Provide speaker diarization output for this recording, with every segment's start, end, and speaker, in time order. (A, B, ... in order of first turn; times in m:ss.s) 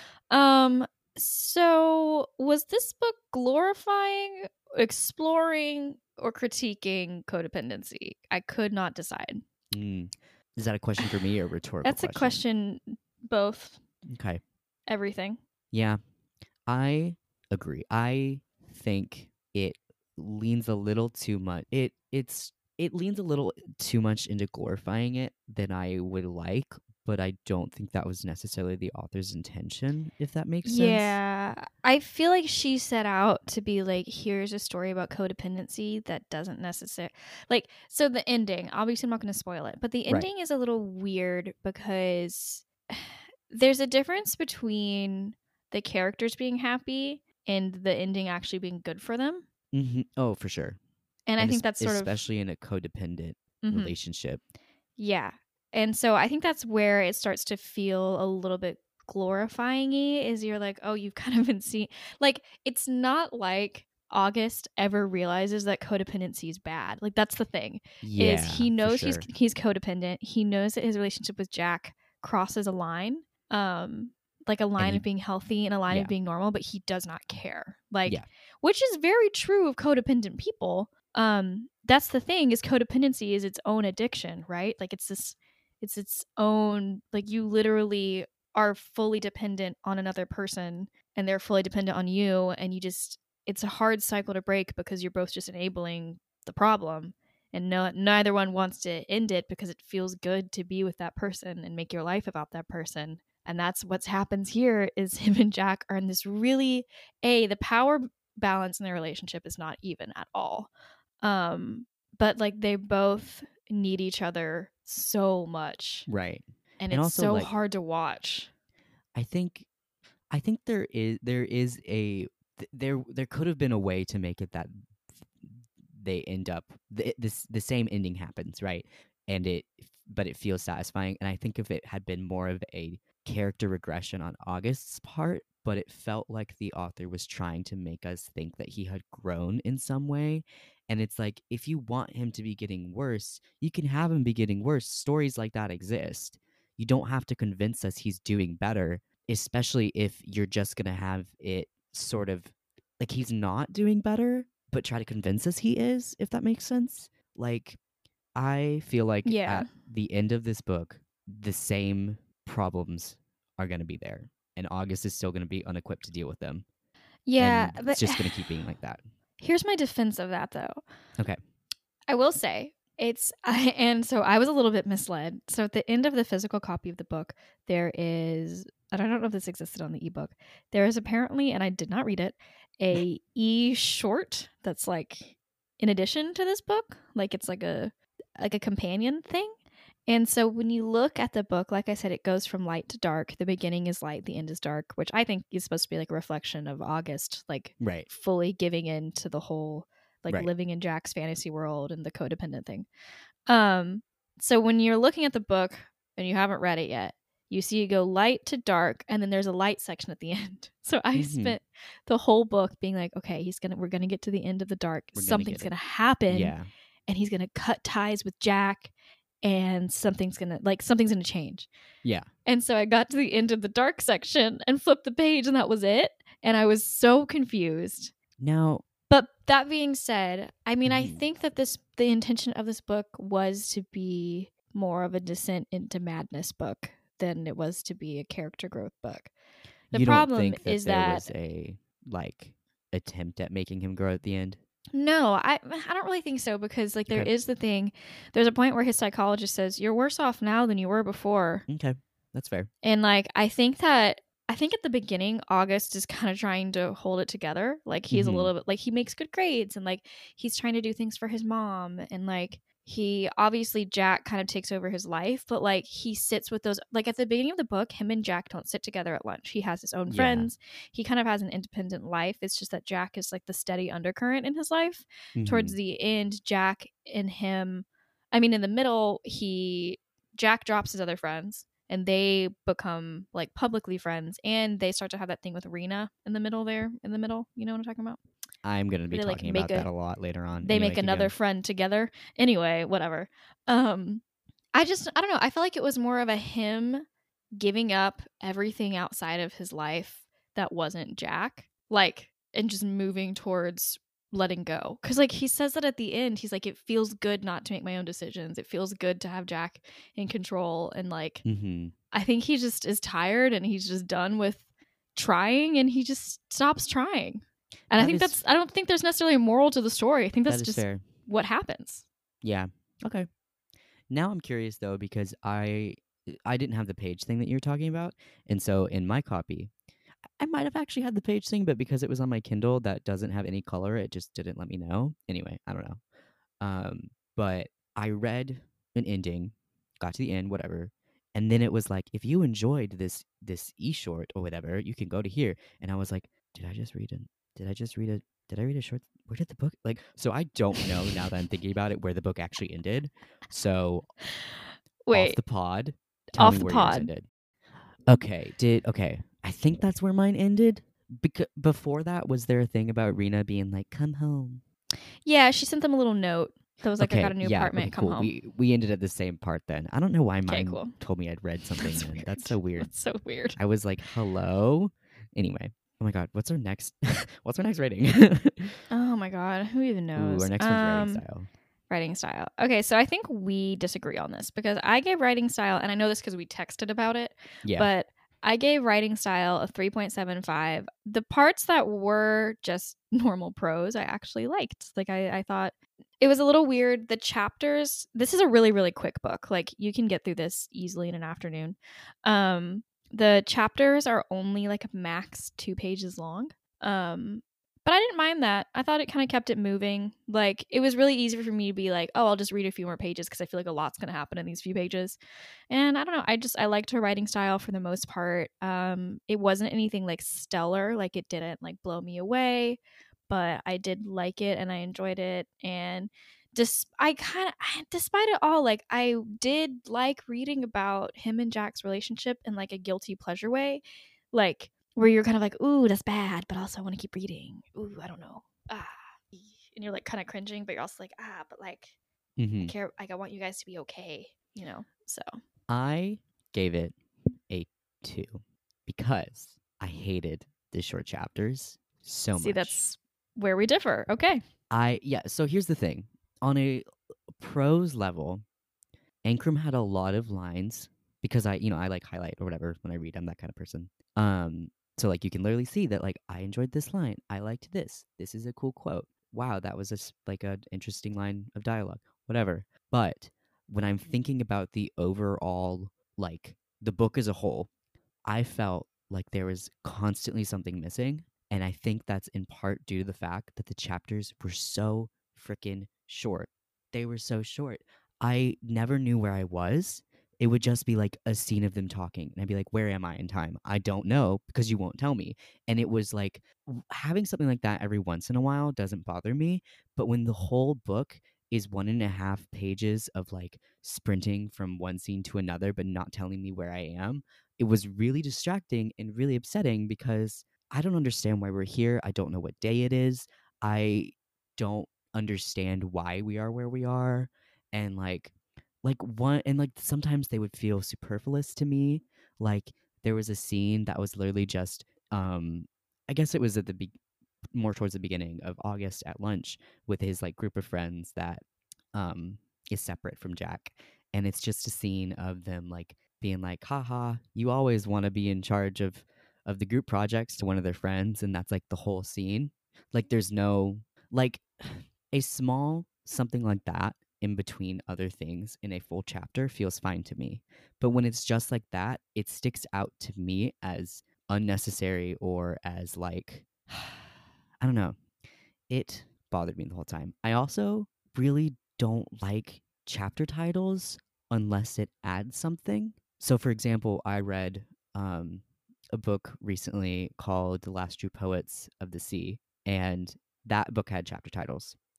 0:00.3-0:09.4 A
0:09.7-0:12.4 B
0:11.8-0:13.8 A
0:14.0-0:14.4 B
0:14.9-0:15.4 A
0:15.7-0:16.0 B
0:16.7-0:31.2 B
0:30.6-0:49.4 A
0:49.7-0:50.8 B
0:51.3-0:52.2 A
0:51.4-0:54.4 B
0:53.6-0:54.0 A
0:55.0-1:50.7 A
1:08.0-1:09.2 B
1:14.8-1:15.0 B
1:51.2-1:56.1 A
1:56.1-1:57.5 B
1:56.8-1:58.5 A
1:59.1-1:59.7 B
2:00.3-2:37.8 B
2:38.3-2:46.6 B
2:39.2-2:39.7 A
2:47.3-2:48.5 A
2:47.4-2:49.0 B
2:49.4-2:50.8 A
2:52.1-3:09.5 A
3:10.1-3:22.9 A
3:17.8-3:18.1 B
3:23.5-3:36.6 A
3:31.1-3:31.6 B
3:35.1-3:35.7 B
3:36.3-3:36.7 B
3:37.1-3:38.9 A
3:39.4-3:41.7 A
3:42.4-3:48.1 A
3:48.4-3:48.8 B
3:49.1-3:59.3 A
3:50.8-3:51.2 B
3:59.9-4:04.6 B
3:59.9-4:01.3 A
4:04.9-4:11.6 A
4:07.0-4:07.3 B
4:11.7-4:12.7 B
4:12.8-4:48.2 A
4:18.1-4:18.5 B
4:30.1-4:30.5 B
4:35.3-4:35.7 B
4:48.6-4:51.3 B
4:49.1-4:49.9 A
4:50.6-4:54.2 A
4:54.7-5:11.4 A
5:11.4-5:11.9 B
5:12.1-5:22.0 A
5:17.9-5:18.4 B
5:20.5-5:21.0 B
5:22.4-5:23.3 B
5:24.1-5:29.7 B
5:30.4-5:36.0 B
5:36.6-5:54.1 B
5:54.4-5:55.4 A
5:55.1-5:57.3 B
5:56.4-5:57.1 A
5:58.0-6:04.6 B
6:05.2-6:08.3 A
6:07.0-6:12.9 B
6:10.5-6:11.0 A
6:11.8-6:13.6 A
6:13.5-6:18.8 B
6:18.9-6:21.2 A
6:20.1-6:21.5 B
6:21.9-6:55.2 A
6:27.6-6:27.9 B
6:55.7-7:22.0 A
7:22.4-7:22.7 B
7:22.6-7:25.2 A
7:25.7-7:27.0 B
7:27.5-7:32.8 B
7:32.3-7:34.4 A
7:34.7-7:38.4 B
7:39.2-7:57.7 B
7:58.2-8:46.9 B
8:47.5-9:17.1 B
9:17.6-9:18.0 B
9:18.7-9:34.8 B